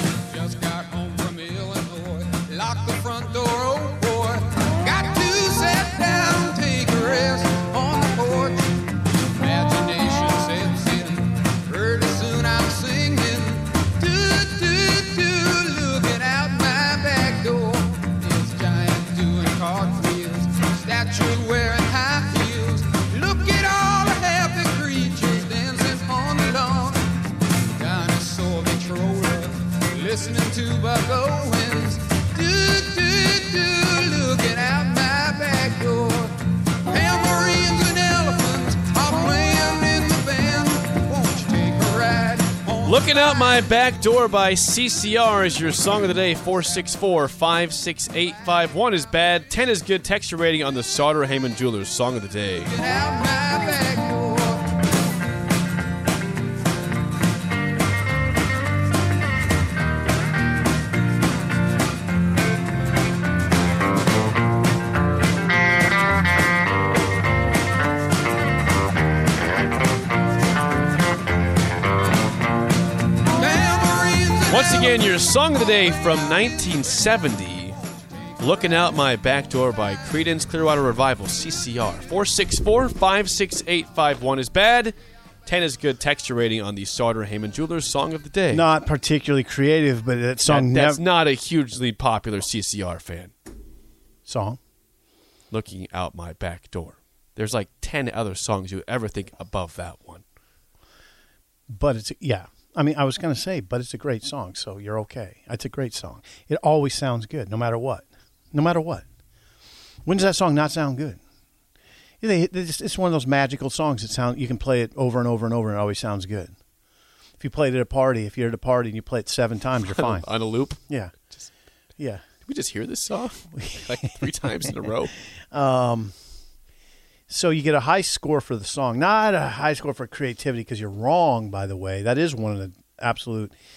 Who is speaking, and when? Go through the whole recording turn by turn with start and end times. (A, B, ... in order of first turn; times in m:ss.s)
0:00.1-0:43.3 A
0:42.8-0:52.8 B
0:52.7-0:54.8 A
1:13.3-1:15.0 A
1:14.4-1:17.8 B
1:18.4-1:25.0 B
1:25.4-1:28.7 B
1:28.5-1:31.0 C
1:30.5-1:33.3 B
1:34.3-1:34.6 C
1:35.5-1:40.2 B
1:41.7-1:49.0 C
1:50.0-1:51.2 C
1:52.2-1:56.5 C
1:57.4-2:00.3 C
1:59.8-2:00.8 B
2:00.9-2:01.1 C
2:02.0-2:02.2 C
2:02.4-2:05.2 B
2:03.5-2:04.3 C
2:05.5-2:06.1 C
2:07.3-2:13.5 C